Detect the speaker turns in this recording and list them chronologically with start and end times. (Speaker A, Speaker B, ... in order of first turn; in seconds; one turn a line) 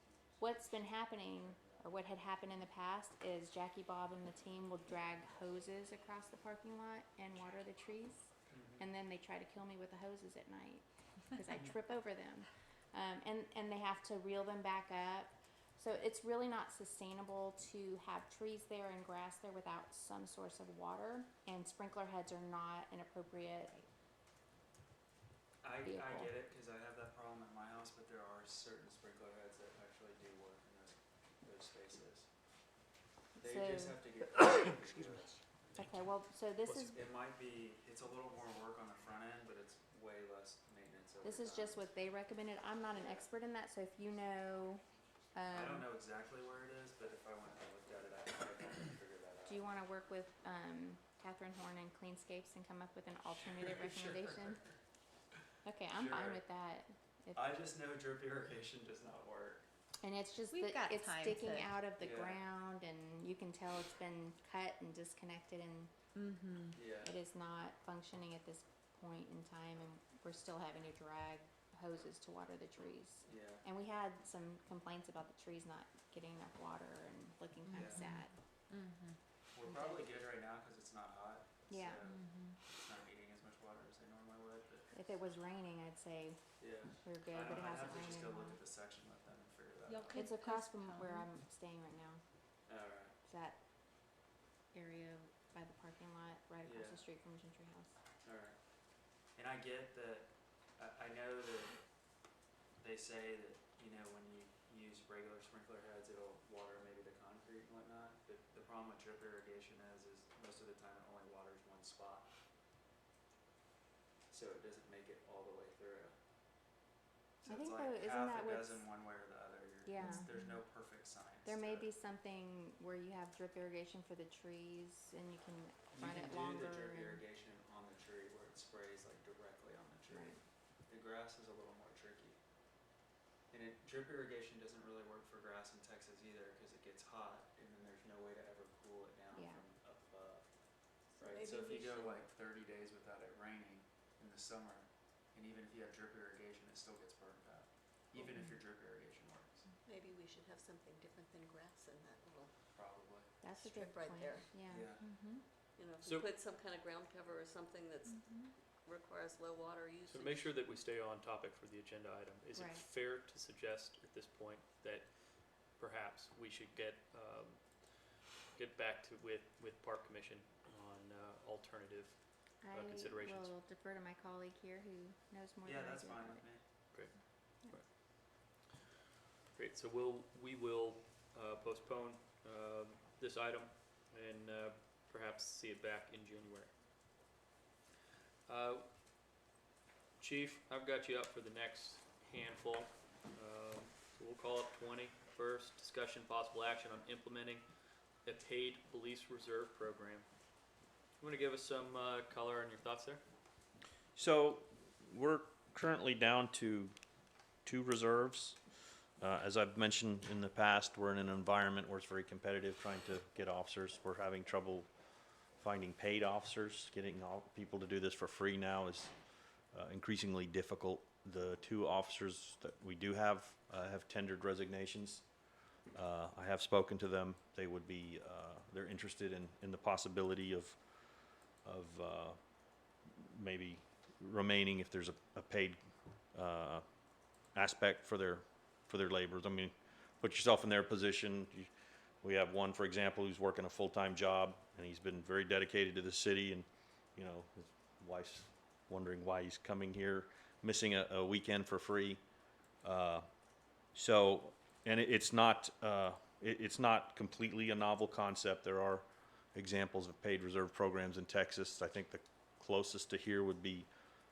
Speaker A: 0.4-23.9
Speaker B: 8.5-8.9
Speaker B: 25.6-32.3
Speaker A: 25.8-26.4
Speaker B: 33.4-35.4
Speaker A: 33.4-34.2
Speaker A: 35.8-37.0
Speaker C: 36.6-36.9
Speaker B: 36.9-41.9
Speaker A: 41.2-45.9
Speaker B: 42.9-43.2
Speaker B: 45.5-49.8
Speaker A: 49.5-54.6
Speaker B: 53.5-54.6
Speaker A: 55.6-57.8
Speaker C: 56.0-56.4
Speaker B: 57.3-59.7
Speaker A: 60.0-65.9
Speaker D: 60.5-61.8
Speaker B: 62.0-62.5
Speaker D: 66.2-66.8
Speaker B: 66.8-67.2
Speaker A: 67.0-78.3
Speaker B: 73.2-73.7
Speaker D: 77.6-79.2
Speaker B: 77.7-78.0
Speaker B: 79.5-84.9
Speaker A: 79.7-80.1
Speaker A: 81.7-82.0
Speaker D: 82.0-82.6
Speaker A: 84.9-86.4
Speaker B: 86.6-90.2
Speaker A: 87.0-88.6
Speaker D: 89.9-91.3
Speaker A: 90.1-92.2
Speaker B: 92.7-93.2
Speaker A: 93.2-93.6
Speaker A: 94.7-97.9
Speaker B: 96.6-97.0
Speaker B: 98.2-98.6
Speaker B: 99.4-101.8
Speaker B: 102.8-112.3
Speaker B: 114.3-116.2
Speaker B: 117.4-121.9
Speaker A: 117.5-118.9
Speaker A: 119.8-120.3
Speaker D: 120.0-120.4
Speaker A: 121.4-127.2
Speaker B: 125.9-132.4
Speaker A: 130.1-130.4
Speaker B: 133.5-149.7
Speaker A: 139.3-139.6
Speaker E: 141.5-141.9
Speaker E: 149.9-152.5
Speaker B: 152.7-153.4
Speaker A: 153.4-154.9
Speaker E: 153.6-154.5
Speaker B: 154.7-155.2
Speaker D: 155.0-155.4
Speaker E: 155.8-160.5
Speaker C: 156.0-156.3
Speaker D: 158.1-158.5
Speaker C: 160.1-173.5
Speaker A: 162.5-162.8
Speaker A: 172.6-176.5
Speaker B: 175.6-176.6
Speaker C: 176.9-177.9
Speaker C: 179.5-186.7
Speaker C: 188.5-188.9
Speaker C: 190.2-197.7
Speaker C: 198.2-200.3
Speaker C: 201.2-203.2
Speaker F: 204.2-207.0
Speaker F: 207.6-208.6
Speaker F: 209.2-214.9
Speaker F: 215.5-219.1
Speaker F: 219.7-225.3
Speaker F: 225.9-230.8
Speaker F: 231.6-235.8
Speaker F: 236.3-236.8
Speaker F: 237.4-241.7
Speaker F: 242.2-252.2
Speaker F: 252.8-253.3
Speaker F: 253.8-263.9